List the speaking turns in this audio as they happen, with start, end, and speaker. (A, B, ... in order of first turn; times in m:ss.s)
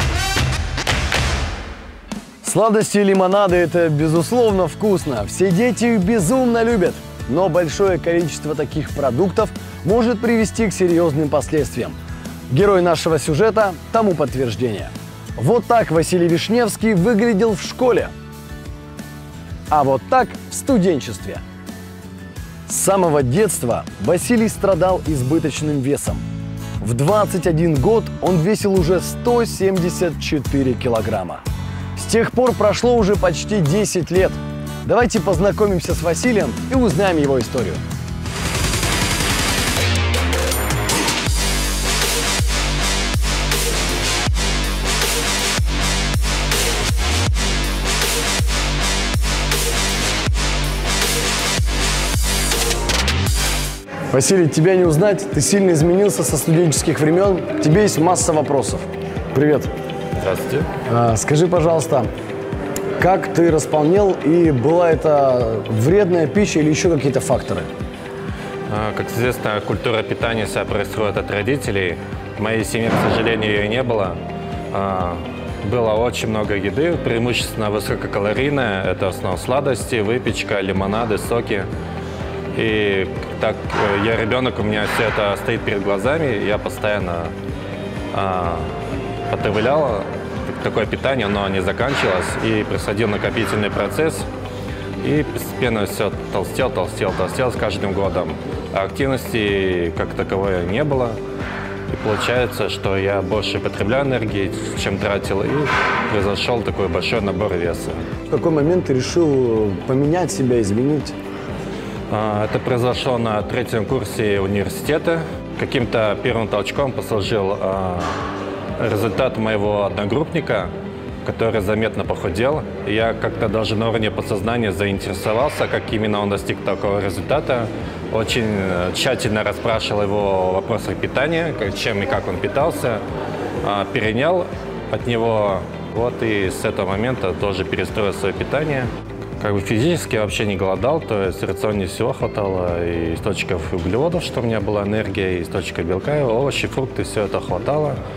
0:02.4-0:12.0 A
0:12.5-0:18.1 A
0:19.7-0:21.4 A
0:22.7-0:26.2 A
0:26.8-0:31.4 A
0:32.0-0:37.8 A
0:54.1-0:59.7 A
1:00.2-1:00.7 B
1:00.9-1:02.1 A
1:03.0-1:07.7 A
1:08.7-1:14.2 B
1:14.7-1:21.7 B
1:22.5-1:27.3 B
1:28.1-1:28.7 B
1:29.3-1:34.3 B
1:35.0-1:41.2 B
1:41.9-1:48.0 B
1:48.3-1:51.2 A
1:52.1-1:58.2 B
1:58.8-2:00.7 B
2:01.2-2:13.0 B
2:13.6-2:18.9 B
2:19.4-2:28.0 B